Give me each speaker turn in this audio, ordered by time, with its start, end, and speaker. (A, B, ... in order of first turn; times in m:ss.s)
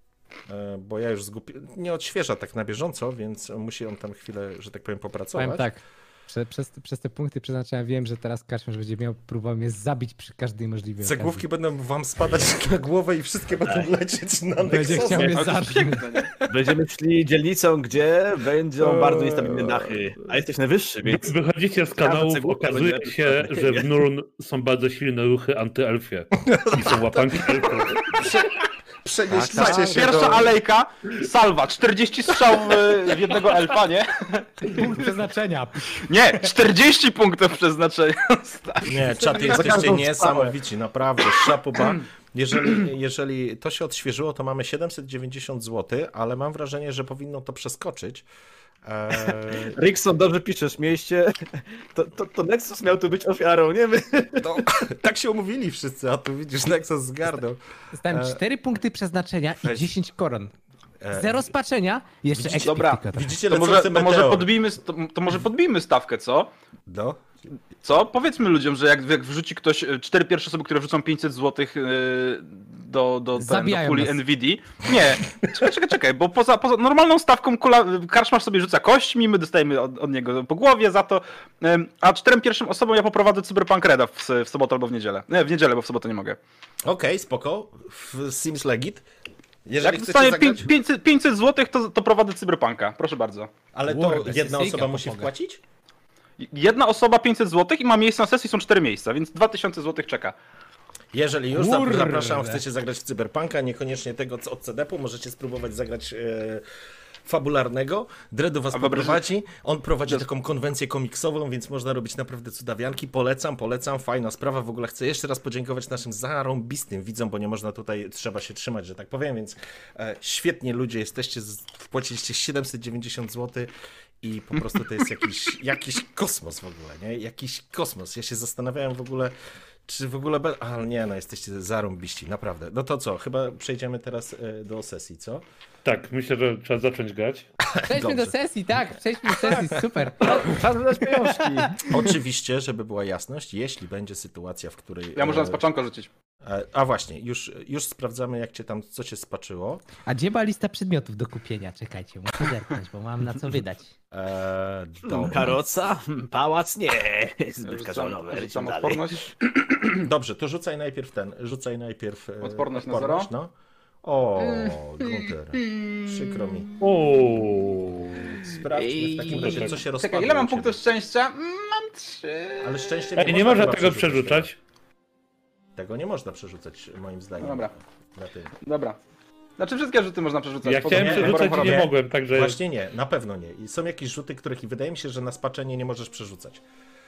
0:00.5-0:05.7 A
0:05.4-0:11.4 B
0:11.0-0:15.4 A
0:14.6-0:16.6 B
0:15.1-0:16.3 C
0:16.5-0:21.3 D
0:18.8-0:19.8 A
0:21.1-0:28.2 E
0:22.0-0:23.9 D
0:26.4-0:30.6 A
0:29.3-0:30.4 B
0:29.5-0:34.9 C
0:34.7-0:36.1 B
0:36.0-0:39.9 C
0:38.8-0:48.2 A
0:39.3-0:40.5 D
0:48.8-0:49.7 A
0:49.1-0:54.6 D
0:54.4-0:58.4 A
0:57.9-1:00.5 B
0:59.6-0:59.9 A
1:01.0-1:01.5 A
1:01.1-1:03.3 B
1:02.3-1:04.5 A
1:02.6-1:06.5 C
1:06.9-1:07.2 A
1:07.8-1:26.4 C
1:13.4-1:14.2 B
1:26.8-1:29.0 A
1:29.6-1:30.7 A
1:29.8-1:33.5 C
1:33.7-1:35.6 A
1:33.9-1:35.3 B
1:36.4-1:40.4 C
1:41.1-1:46.6 A
1:41.5-1:42.6 B
1:47.2-2:03.7 A
1:48.7-1:49.2 C
2:04.2-2:09.3 A
2:09.8-2:15.4 A
2:15.8-2:17.5 E
2:17.6-2:19.8 A
2:17.9-2:21.9 B
2:20.2-2:21.8 D
2:21.8-2:25.6 A
2:25.2-2:26.1 C
2:26.4-2:29.8 A
2:30.0-2:33.9 B
2:34.1-2:35.8 A
2:35.0-2:39.2 D
2:37.6-2:40.0 C
2:39.9-2:46.7 A
2:42.4-2:43.3 C
2:44.4-2:46.5 C
2:46.8-2:48.2 E
2:48.1-2:50.8 A
2:48.7-2:52.8 C
2:49.3-2:49.8 E
2:52.6-2:54.5 A
2:53.2-2:54.6 E
2:55.8-2:58.5 A
2:57.4-2:57.7 C
2:58.6-2:59.0 C
2:59.6-3:01.9 C
3:00.6-3:02.6 E
3:00.9-3:06.6 A